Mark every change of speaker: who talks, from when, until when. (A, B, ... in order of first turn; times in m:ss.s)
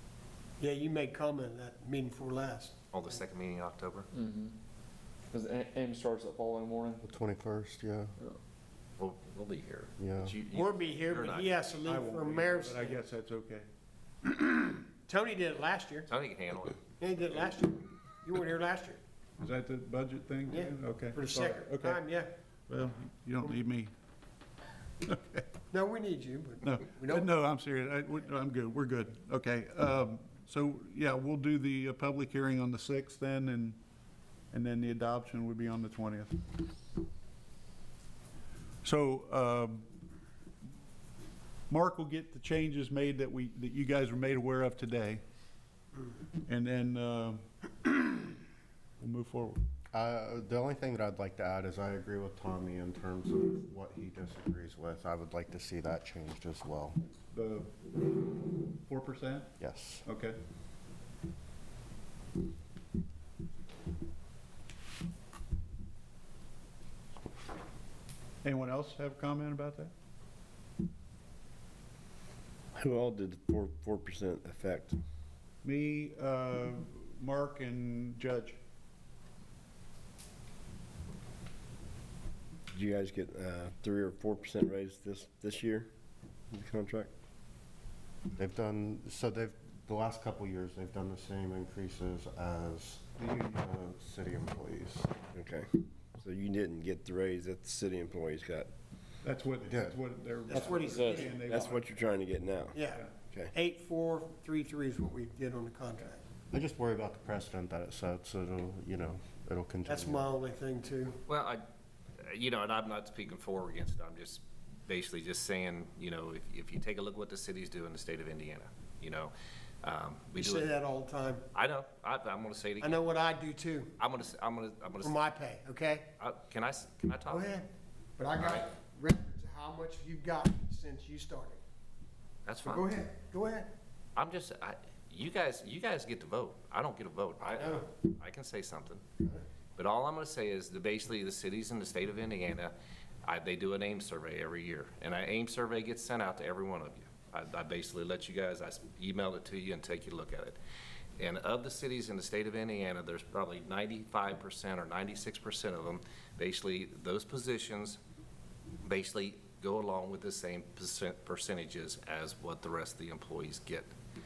0:00.6-0:02.7 A
0:02.9-0:04.1 B
0:04.1-0:04.6 C
0:05.3-0:07.0 C
0:07.0-0:08.1 D
0:09.0-0:11.8 B
0:10.0-0:10.4 D
0:10.5-0:13.0 A
0:11.8-0:13.7 E
0:15.1-0:16.1 A
0:16.1-0:16.8 B
0:17.0-0:19.0 A
0:19.4-0:22.0 E
0:20.5-0:22.3 A
0:22.7-0:23.9 E
0:25.0-0:25.4 E
0:25.7-0:27.3 A
0:26.6-0:33.8 E
0:34.5-0:36.4 E
0:38.8-0:39.9 E
0:41.7-0:45.2 E
0:46.4-0:48.4 E
0:49.0-0:49.6 E
0:49.9-0:57.0 D
0:57.3-0:57.9 E
0:58.7-1:00.4 E
0:59.6-1:00.1 D
1:08.4-1:09.9 E
1:12.7-1:15.0 F
1:15.6-1:18.6 E
1:22.7-1:25.9 F
1:26.5-1:27.1 F
1:28.4-1:35.2 D
1:33.2-1:33.6 E
1:35.3-1:38.7 F
1:39.2-1:41.8 E
1:39.6-1:40.0 D
1:40.5-1:41.4 A
1:40.5-1:41.7 C
1:41.4-1:43.5 F
1:42.7-1:46.2 A
1:46.5-1:50.3 D
1:49.9-1:51.2 A
1:51.3-1:51.6 B
1:52.2-2:00.7 B
2:00.3-2:01.4 A
2:01.5-2:03.0 B
2:02.8-2:03.9 A
2:04.0-2:05.2 B
2:05.0-2:06.1 A
2:06.2-2:07.5 B
2:07.3-2:11.6 A
2:08.4-2:08.7 B
2:12.4-2:12.9 B
2:12.6-2:13.7 A
2:14.2-2:19.0 B
2:17.5-2:17.9 A
2:19.8-2:22.7 B
2:23.2-2:30.6 B
2:31.2-2:38.0 B
2:38.8-2:43.9 B